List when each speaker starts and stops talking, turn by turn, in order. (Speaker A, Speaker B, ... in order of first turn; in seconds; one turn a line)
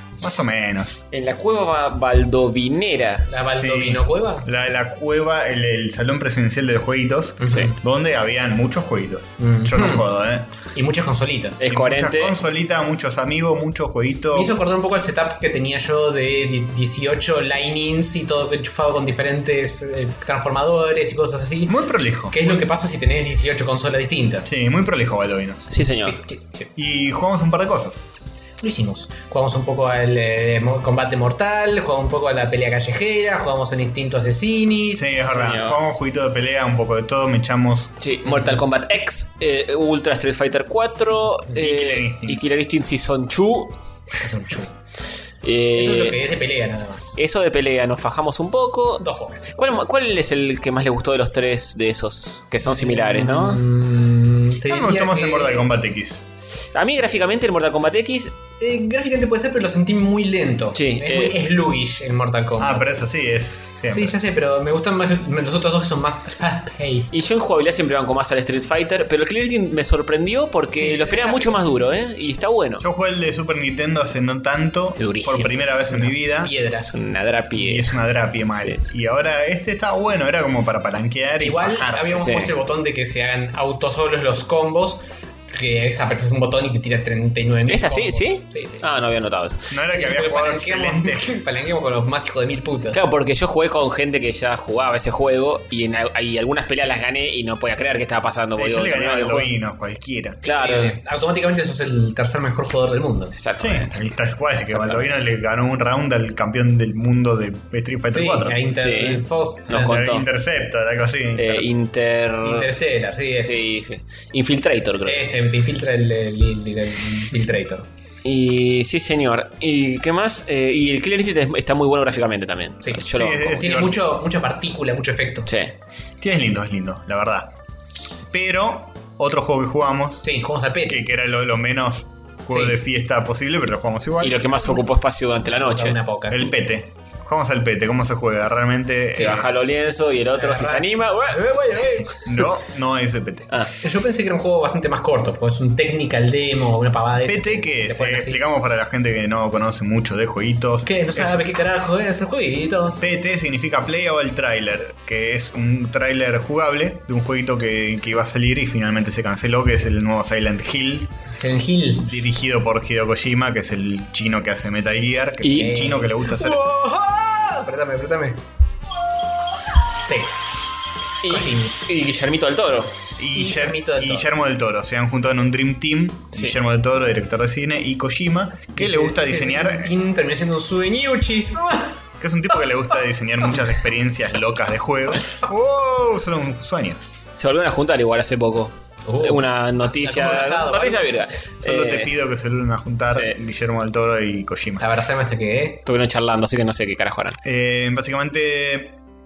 Speaker A: 0.2-1.0
Speaker B: 1.1-3.3
Speaker C: 3.3-4.5
Speaker A: 3.5-10.5
Speaker C: 7.4-7.8
Speaker C: 9.4-10.1
Speaker C: 10.7-11.6
Speaker B: 11.6-12.3
Speaker A: 11.7-14.6
Speaker C: 14.3-21.8
Speaker A: 21.7-22.4
Speaker C: 22.3-24.5
Speaker A: 24.5-25.7
Speaker B: 25.7-26.2
Speaker C: 26.0-26.7
Speaker A: 26.8-28.1
Speaker C: 28.6-35.1
Speaker A: 34.9-37.9
Speaker B: 35.3-35.8
Speaker B: 38.0-43.8
Speaker C: 38.3-38.6
Speaker A: 41.5-42.4
Speaker C: 44.1-44.7
Speaker B: 45.4-46.3
Speaker C: 45.7-47.2
Speaker B: 47.2-53.6
Speaker C: 49.0-49.6
Speaker C: 52.7-55.7
Speaker A: 54.7-56.2
Speaker B: 56.7-58.4
Speaker C: 58.6-62.9
Speaker B: 60.7-61.4
Speaker A: 62.6-64.2
Speaker C: 63.9-67.2
Speaker B: 67.1-72.8
Speaker C: 70.7-72.0
Speaker A: 72.8-76.5
Speaker C: 75.0-76.9
Speaker B: 76.9-78.0
Speaker A: 77.5-82.3
Speaker B: 78.6-78.8
Speaker C: 81.4-88.9
Speaker B: 82.2-82.5
Speaker B: 87.7-89.7
Speaker A: 89.7-91.4
Speaker C: 89.9-93.0
Speaker B: 92.9-99.5
Speaker A: 98.6-100.4
Speaker C: 100.4-103.3
Speaker B: 100.4-101.2
Speaker B: 103.4-103.9
Speaker A: 103.6-108.6
Speaker B: 104.7-105.1
Speaker C: 108.1-110.2
Speaker B: 108.8-110.2
Speaker A: 109.7-111.7
Speaker B: 111.4-112.7
Speaker C: 112.4-113.5
Speaker B: 113.4-115.3
Speaker C: 115.0-117.9
Speaker B: 118.2-123.7
Speaker C: 122.8-125.5
Speaker A: 123.1-124.0
Speaker B: 125.5-125.8
Speaker A: 126.2-127.5
Speaker A: 128.3-130.3
Speaker C: 130.2-131.0
Speaker A: 130.9-134.4
Speaker C: 132.5-132.8
Speaker B: 134.2-136.0
Speaker C: 135.6-136.5
Speaker A: 136.3-139.5
Speaker B: 139.2-142.0
Speaker C: 140.4-142.4
Speaker A: 142.2-143.5
Speaker C: 143.8-148.4
Speaker A: 147.2-151.5
Speaker C: 150.8-153.1
Speaker A: 152.9-161.1
Speaker C: 161.4-162.3
Speaker A: 162.0-166.6
Speaker B: 165.4-165.9
Speaker C: 165.5-168.4
Speaker C: 170.0-170.3
Speaker B: 171.2-172.9
Speaker C: 171.2-171.9
Speaker A: 173.2-179.9
Speaker C: 173.3-174.3
Speaker C: 178.8-182.0
Speaker A: 182.2-187.1
Speaker B: 187.3-192.1
Speaker C: 189.1-191.1
Speaker A: 191.6-194.9
Speaker B: 193.1-193.3
Speaker C: 194.8-195.8
Speaker B: 195.9-197.4
Speaker A: 197.4-199.0